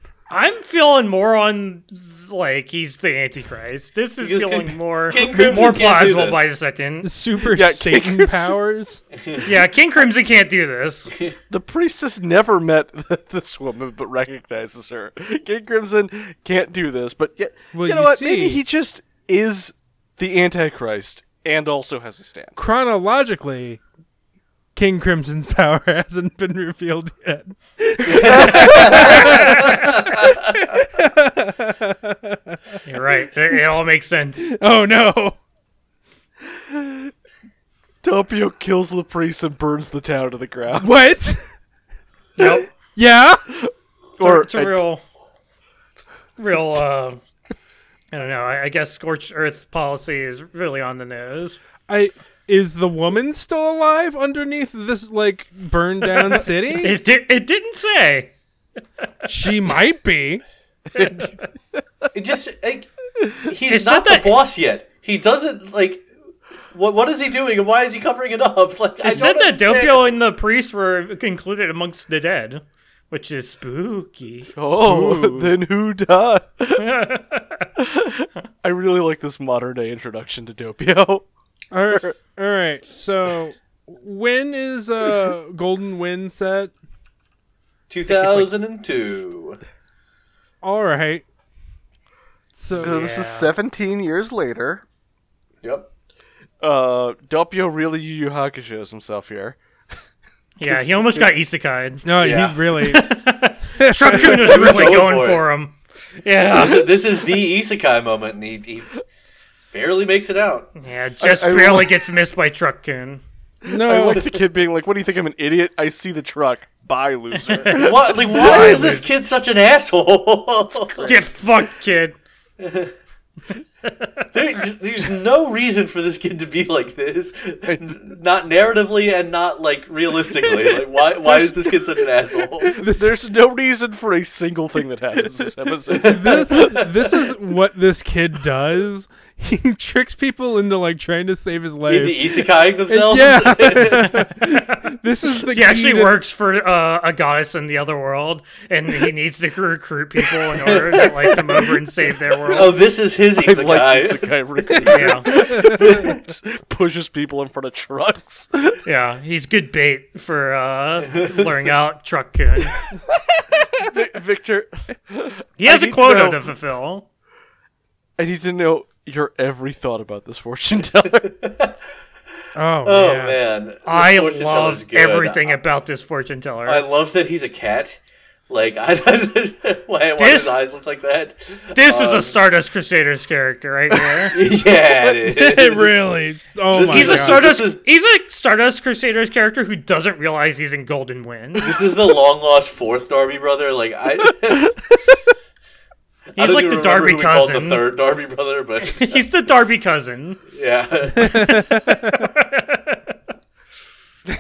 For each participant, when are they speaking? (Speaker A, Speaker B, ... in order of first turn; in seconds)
Speaker A: 0.3-7.1, 9.4-11.1, 32.9-34.5, 42.4-42.7, 44.2-45.0, 46.4-47.2, 48.1-51.6, 56.3-58.3, 61.0-61.3, 63.7-64.4, 69.0-74.5, 76.8-77.7, 92.8-93.5, 100.6-102.0, 102.8-106.9, 110.8-113.2, 117.4-119.1, 121.1-122.2, 123.9-124.3, 144.3-144.8, 145.5-152.8, 154.9-155.3, 158.8-162.8, 165.6-167.1, 173.8-176.8, 180.2-180.6, 181.8-184.4, 186.9-191.7, 196.4-197.8, 198.8-200.4, 201.9-203.1
Speaker B: 4.2-6.5, 9.2-9.5, 28.1-30.4, 62.1-62.9, 63.5-66.1, 66.7-70.1, 87.9-89.6, 95.6-95.9, 102.2-102.6, 104.2-105.4, 106.5-109.0, 109.7-110.7, 117.7-121.1, 122.6-122.9, 124.3-132.8, 135.9-136.9, 141.9-144.2, 150.5-151.4, 152.5-156.2, 171.3-171.7, 172.8-175.6, 176.7-182.4, 184.3-186.1, 186.7-187.8, 191.6-194.8, 196.4-199.2, 200.5-201.8
Speaker C: 7.0-9.0, 17.7-18.6, 22.6-23.8, 24.8-32.6, 34.5-35.4, 40.8-41.6, 42.9-43.4, 51.9-57.0, 59.2-60.4, 74.7-75.6, 81.7-86.7, 90.6-91.2, 92.6-93.0, 102.0-103.1, 103.8-104.7, 113.7-114.3, 132.8-133.2, 136.0-146.2, 172.6-173.4, 185.0-187.4, 201.2-202.2
Speaker D: 7.4-8.6, 11.5-22.6, 28.1-29.4, 36.5-37.1, 38.0-41.0, 43.5-44.8, 61.0-61.8, 74.5-76.9, 77.8-81.3, 81.9-82.1, 92.8-94.8, 96.6-99.6, 100.6-101.4, 111.2-112.0, 113.7-119.0, 120.7-121.3, 127.7-128.0, 132.7-136.9, 153.3-158.8, 163.8-166.4, 168.2-171.3